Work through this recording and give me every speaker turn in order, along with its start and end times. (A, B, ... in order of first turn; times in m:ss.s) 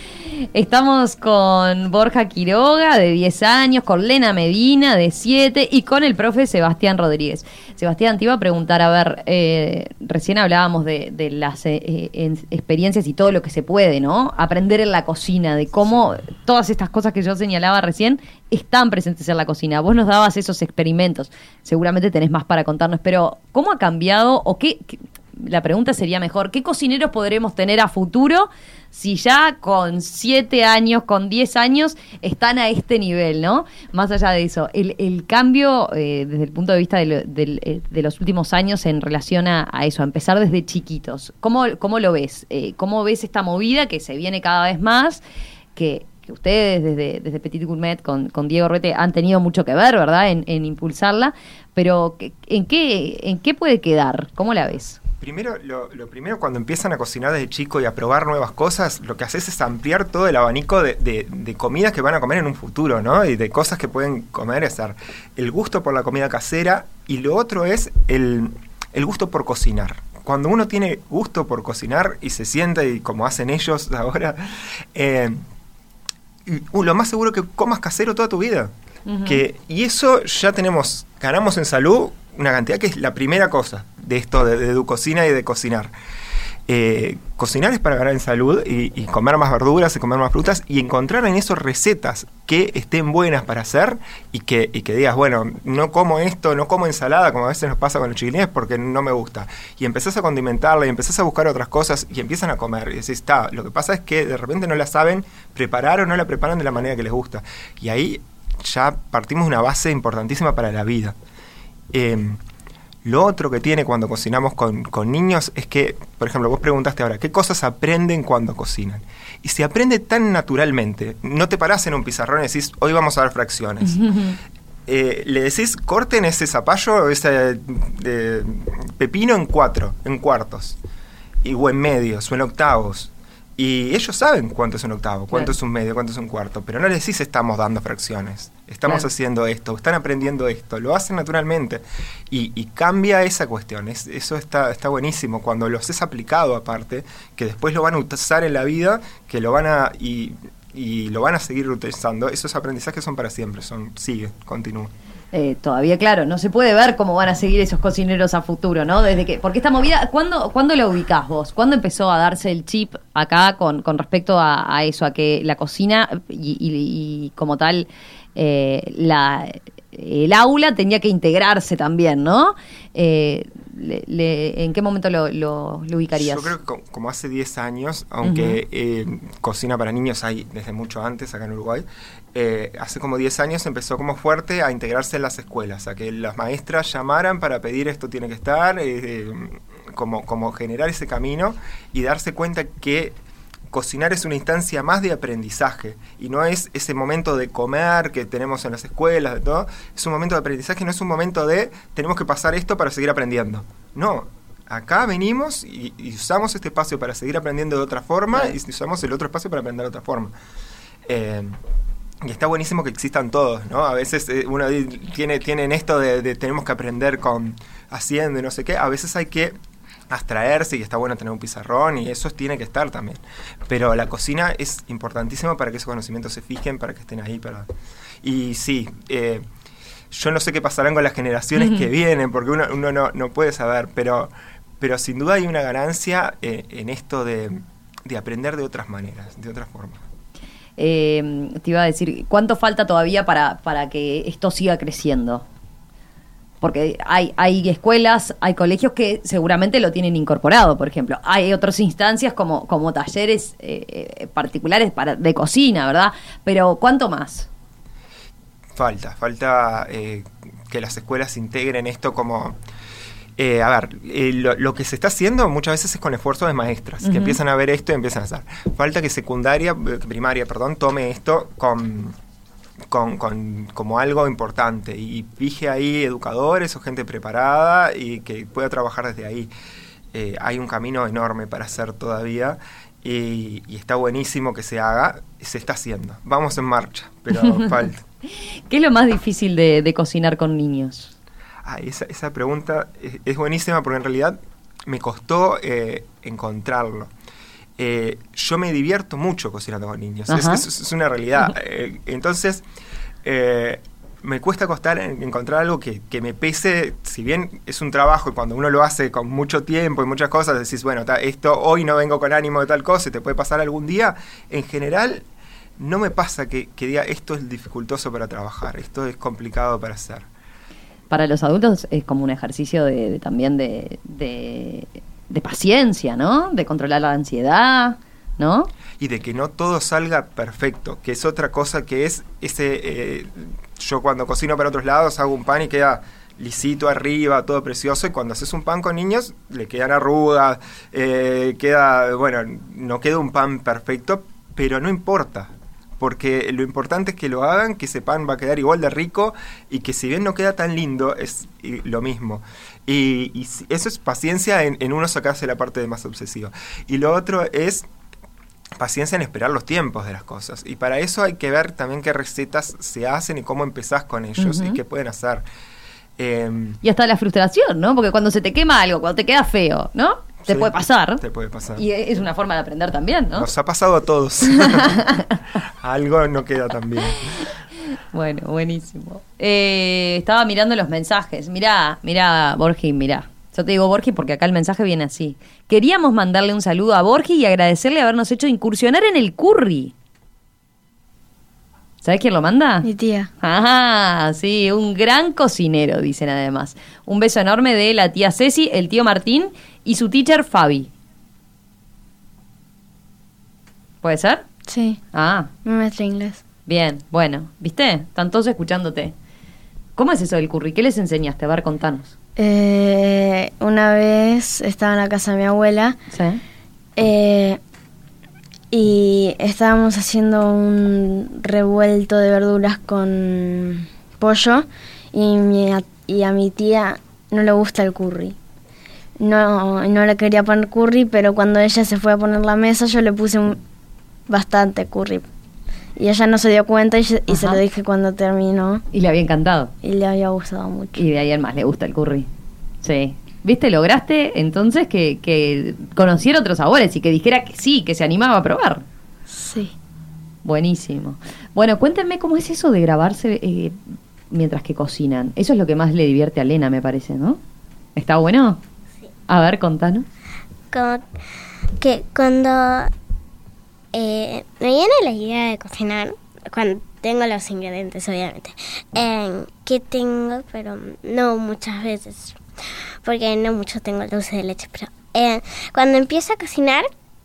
0:00.3-0:45.2 A
0:45.8-0:55.0 A
0:55.2-1:15.4 B
1:16.5-1:18.7 B
1:19.1-1:19.4 A
1:19.3-1:25.9 B
1:26.7-1:51.2 B
1:51.9-1:52.4 B
1:53.0-2:04.0 B
2:03.9-2:04.4 A
2:04.9-2:10.8 B
2:11.4-2:34.9 B
2:35.3-2:56.5 A
2:56.2-3:13.2 B
2:58.2-2:58.6 A
3:13.7-3:30.3 B
3:31.1-3:31.6 B
3:32.2-3:39.6 B
3:40.1-3:47.7 B
3:48.2-3:49.4 B
3:50.1-4:00.0 B
3:51.6-3:51.9 A
4:00.8-4:05.4 A
4:06.6-4:17.5 A
4:18.8-4:22.6 B
4:23.4-4:32.2 B
4:27.0-4:27.4 A
4:32.9-4:39.5 B
4:40.1-4:48.0 B
4:47.3-4:47.8 A
4:48.7-4:51.1 A
4:51.6-4:57.1 B
4:57.8-5:02.6 B
5:00.3-5:00.6 A
5:03.2-5:15.2 B
5:15.8-5:20.3 B
5:21.1-5:28.7 A
5:29.0-5:57.8 B
5:58.8-6:05.4 B
6:04.4-6:04.8 A
6:06.2-6:06.8 B
6:06.8-6:11.2 A
6:10.5-6:11.8 B
6:11.8-6:13.5 A
6:13.4-6:15.0 B
6:14.5-6:15.4 A
6:15.8-6:17.4 B
6:18.1-6:29.9 A
6:32.0-6:32.9 A
6:32.8-6:33.3 C
6:33.4-6:40.9 A
6:44.0-6:44.4 A
6:44.7-6:45.0 C
6:45.1-6:45.5 A
6:45.6-6:46.4 C
6:46.7-6:49.1 A
6:50.0-6:52.1 A
6:52.4-6:56.0 C
6:56.1-6:56.4 A
6:57.0-6:57.6 C
6:58.7-7:08.4 C
7:09.2-7:13.6 C
7:14.3-7:15.3 C
7:16.0-7:18.8 C
7:17.3-7:17.6 A
7:18.9-7:19.7 A
7:19.8-7:21.0 C
7:21.0-7:22.3 A
7:22.8-7:28.8 A
7:29.3-7:29.7 C
7:30.4-7:33.8 A
7:34.3-7:37.4 A
7:38.0-7:38.6 A
7:39.3-7:40.1 A
7:40.7-7:41.0 D
7:41.8-7:42.9 D
7:43.9-7:56.9 D